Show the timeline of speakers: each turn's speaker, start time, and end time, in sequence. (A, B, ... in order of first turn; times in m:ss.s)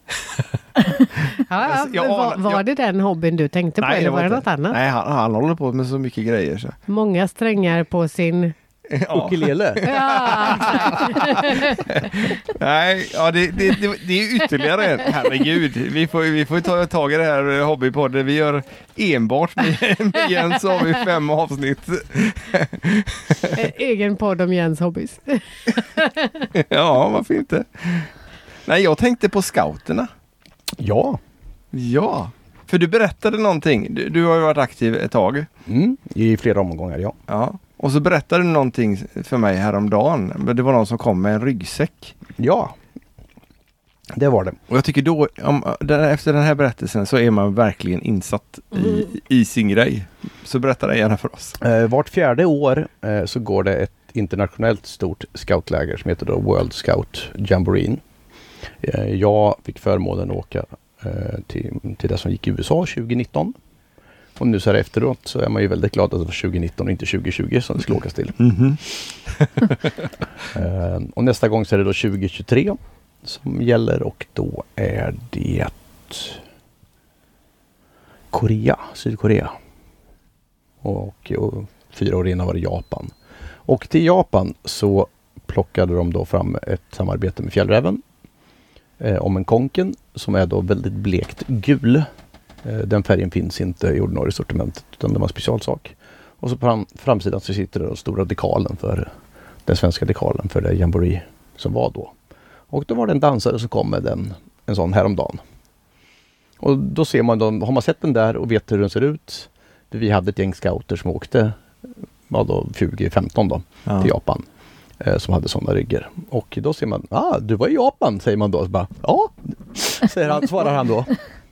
0:01.4-0:04.8 A
0:01.6-0:02.6 B
0:03.8-0:06.8 B
0:06.9-0:08.5 A
0:08.9-0:23.6 B
0:09.1-0:10.0 C
0:09.9-0:11.8 A
0:23.5-0:26.5 A
0:26.5-0:28.1 B
0:28.6-0:30.1 B
0:30.8-0:31.2 C
0:31.7-0:35.5 B
0:35.7-0:37.2 C
0:37.3-0:42.2 B
0:42.4-0:42.8 C
0:44.1-0:44.6 C
0:44.7-0:51.6 B
0:51.6-0:58.0 C
0:58.8-1:03.6 C
1:04.4-1:08.4 C
1:08.4-1:10.1 B
1:10.5-1:16.4 C
1:18.3-1:19.5 C
1:20.8-1:23.1 C
1:23.7-1:28.0 C
1:29.0-1:32.1 C
1:32.6-1:39.1 C
1:39.7-1:42.1 C
1:42.7-1:45.4 C
1:46.6-1:51.6 C
1:52.3-1:54.4 C
1:53.9-1:54.1 B
1:55.0-2:01.2 C